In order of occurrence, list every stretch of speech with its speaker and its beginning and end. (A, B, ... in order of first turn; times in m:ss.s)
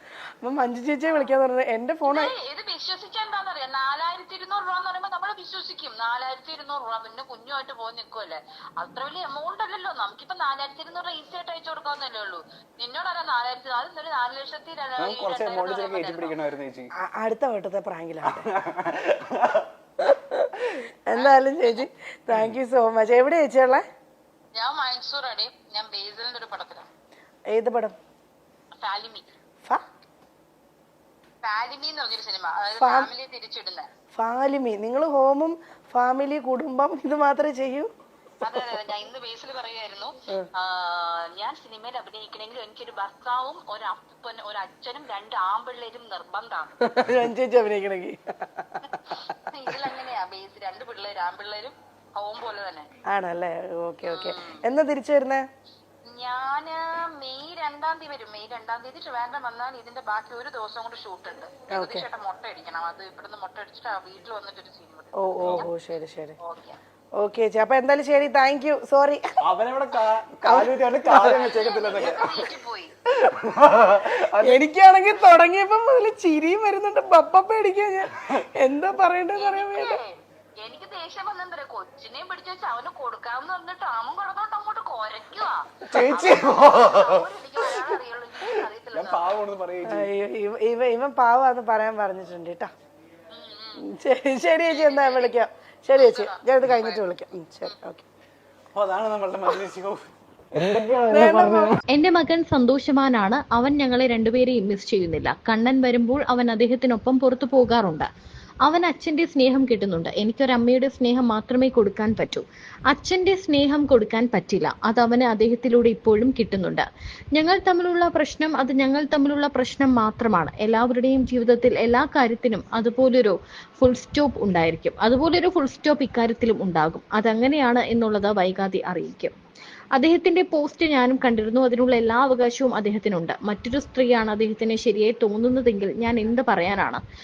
0:00.4-0:02.3 A
0:02.0-0:16.4 B
0:15.0-0:16.9 C
0:17.0-0:18.4 A
0:18.2-0:19.7 C
0:20.0-0:20.4 A
0:21.1-0:23.8 A
0:21.1-0:21.8 B
0:24.5-0:26.9 B
0:27.5-0:28.0 A
0:28.8-0:29.3 B
0:31.4-0:33.9 B
0:32.7-0:33.1 A
0:34.1-0:37.9 A
0:38.4-0:46.7 B
0:46.8-0:49.0 A
0:49.2-0:52.9 B
0:53.1-0:55.4 A
0:54.0-0:54.6 B
0:56.0-1:05.7 B
1:01.7-1:02.1 A
1:05.2-1:06.4 A
1:06.4-1:06.8 B
1:07.2-1:09.3 A
1:09.4-1:12.3 C
1:10.4-1:11.4 A
1:11.2-1:12.9 B
1:13.1-1:14.6 C
1:14.4-1:20.0 A
1:19.3-1:29.3 B
1:25.9-1:27.8 C
1:28.5-1:30.1 C
1:29.8-1:32.7 A
1:33.3-1:33.8 B
1:33.8-1:38.0 A
1:34.7-1:35.4 B
1:35.9-1:37.0 B
1:38.7-1:41.8 C
1:41.1-1:41.8 A
1:41.9-1:48.1 D
1:48.6-2:09.3 D
2:09.9-2:17.0 D